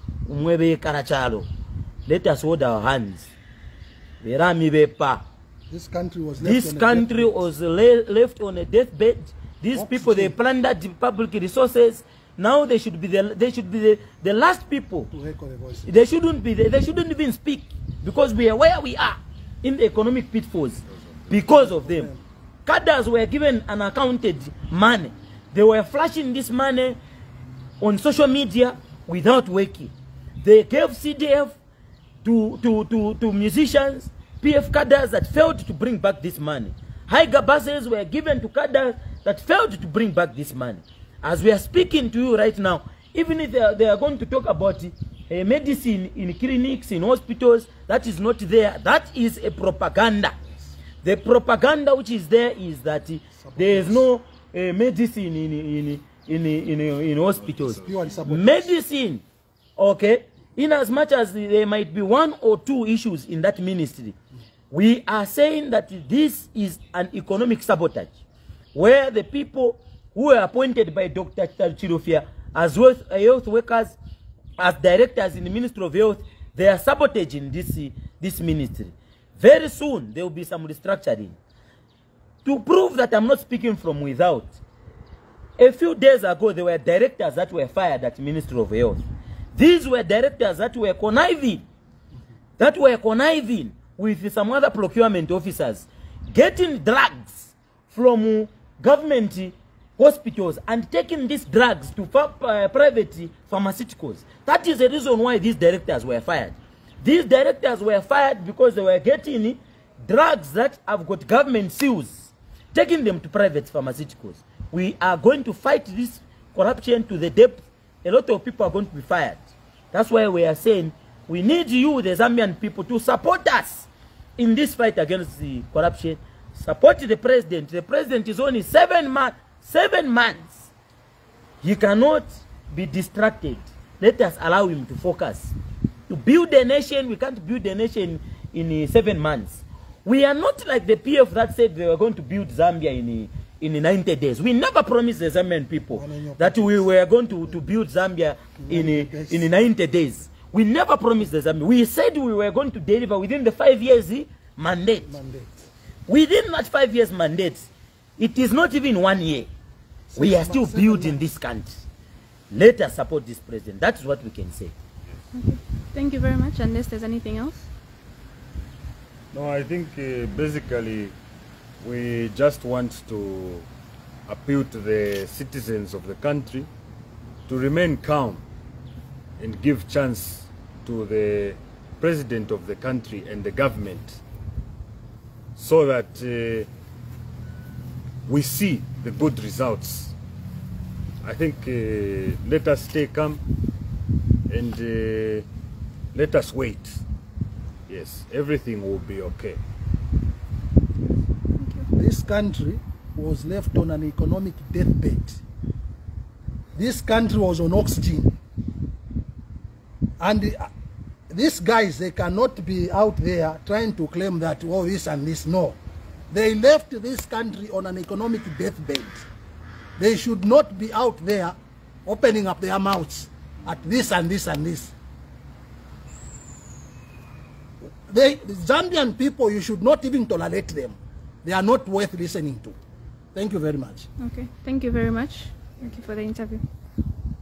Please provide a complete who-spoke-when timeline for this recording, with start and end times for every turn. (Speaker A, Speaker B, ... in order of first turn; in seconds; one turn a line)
Speaker A: 0.2-1.5
Speaker A: 2.1-3.3
Speaker A: 4.2-5.2
Speaker B: 5.7-7.4
Speaker A: 6.4-15.1
Speaker B: 9.7-10.3
Speaker B: 15.1-15.9
Speaker A: 15.8-22.1
Speaker B: 21.4-22.2
Speaker A: 22.6-27.0
Speaker A: 27.8-31.6
Speaker A: 32.2-50.3
Speaker A: 51.0-59.2
Speaker B: 53.4-54.1
Speaker B: 57.7-58.7
Speaker A: 59.8-64.2
Speaker A: 64.7-68.2
Speaker A: 68.7-74.0
Speaker A: 74.6-81.4
Speaker A: 82.4-84.6
Speaker A: 85.6-91.6
Speaker A: 92.6-130.7
Speaker A: 131.6-135.5
Speaker A: 136.1-155.2
Speaker B: 145.9-146.9
Speaker B: 148.6-149.5
Speaker B: 155.1-155.7
Speaker A: 156.1-159.5
Speaker B: 160.1-161.3
Speaker A: 160.1-161.8
Speaker A: 162.5-164.7
Speaker C: 165.3-167.7
Speaker D: 169.3-171.1
Speaker D: 171.8-173.7
Speaker D: 174.3-176.7
Speaker D: 177.5-178.4
Speaker D: 179.4-184.2
Speaker D: 185.5-186.7
Speaker D: 188.2-190.2
Speaker D: 191.2-193.4
Speaker D: 194.5-195.4
Speaker D: 196.1-197.0
Speaker D: 197.9-199.6
Speaker C: 201.6-201.9
Speaker B: 201.9-205.4
Speaker B: 206.8-208.3
Speaker B: 210.2-210.7
Speaker B: 211.3-215.8
Speaker B: 216.3-219.2
Speaker B: 220.0-221.5
Speaker B: 222.1-224.9
Speaker B: 228.1-232.7
Speaker B: 233.3-234.1
Speaker C: 234.2-236.6